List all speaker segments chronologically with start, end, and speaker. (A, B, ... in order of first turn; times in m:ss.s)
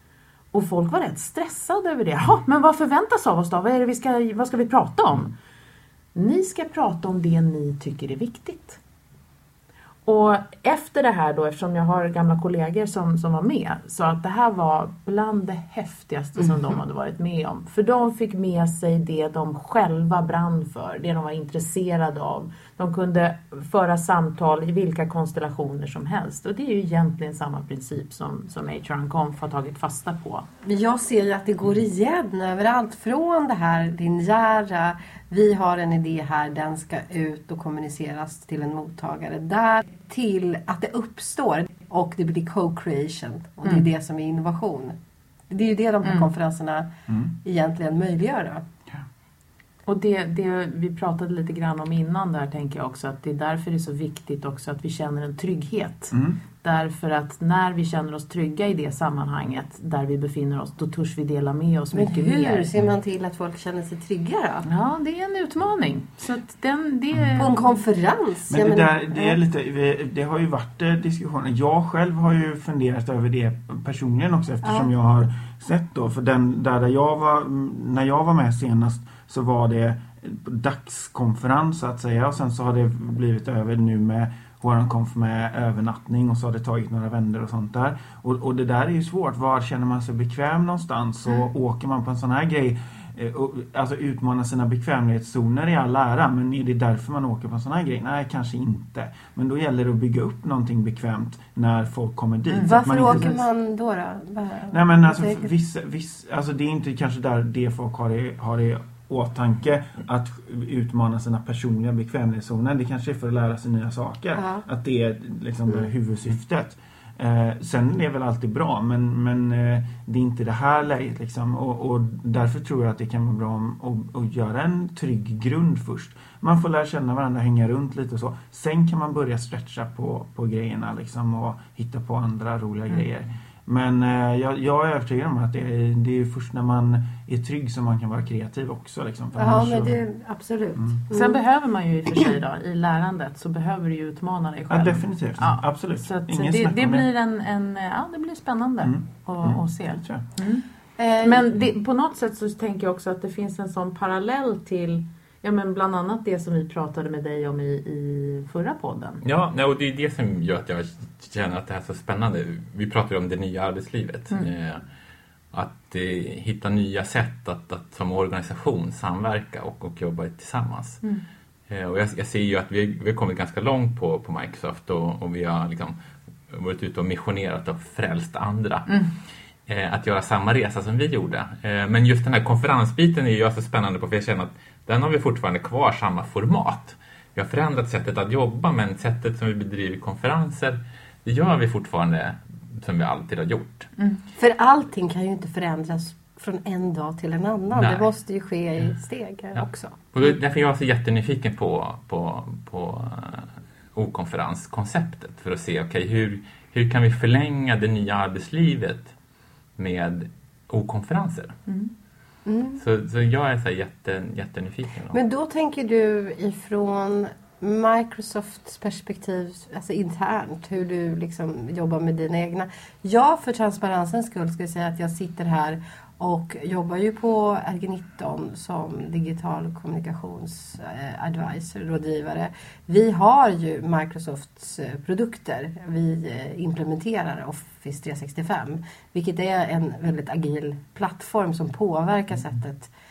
0:00.5-0:05.3 A
0:06.2-0:08.8 A
0:10.1-0:30.5 A
0:30.6-0:45.0 B
0:45.5-0:46.9 B
0:46.0-0:46.3 A
0:47.4-0:48.6 B
0:49.9-1:02.7 A
0:56.1-0:56.4 C
1:01.9-1:04.6 B
1:04.6-1:07.6 A
1:07.4-1:09.4 B
1:08.5-1:43.4 C
1:14.6-1:14.9 B
1:42.5-1:43.4 A
1:42.6-1:45.5 B
1:44.7-2:20.0 C
1:54.4-1:54.6 B
2:19.4-2:21.4 B
2:21.1-2:30.6 A
2:24.7-2:27.1 C
2:28.8-2:30.2 C
2:31.0-2:31.4 B
2:31.2-2:39.2 A
2:39.2-2:44.8 D
2:45.5-2:51.0 D
2:51.7-2:56.0 D
2:56.5-2:58.9 D
2:58.9-2:59.1 A
2:59.7-3:13.9 D
3:14.4-3:19.9 B
3:17.7-3:18.1 D
3:19.6-3:29.1 D
3:29.8-3:31.6 D
3:31.7-3:31.9 A
3:32.5-3:32.8 B
3:32.8-3:35.2 D
3:35.1-4:02.9 B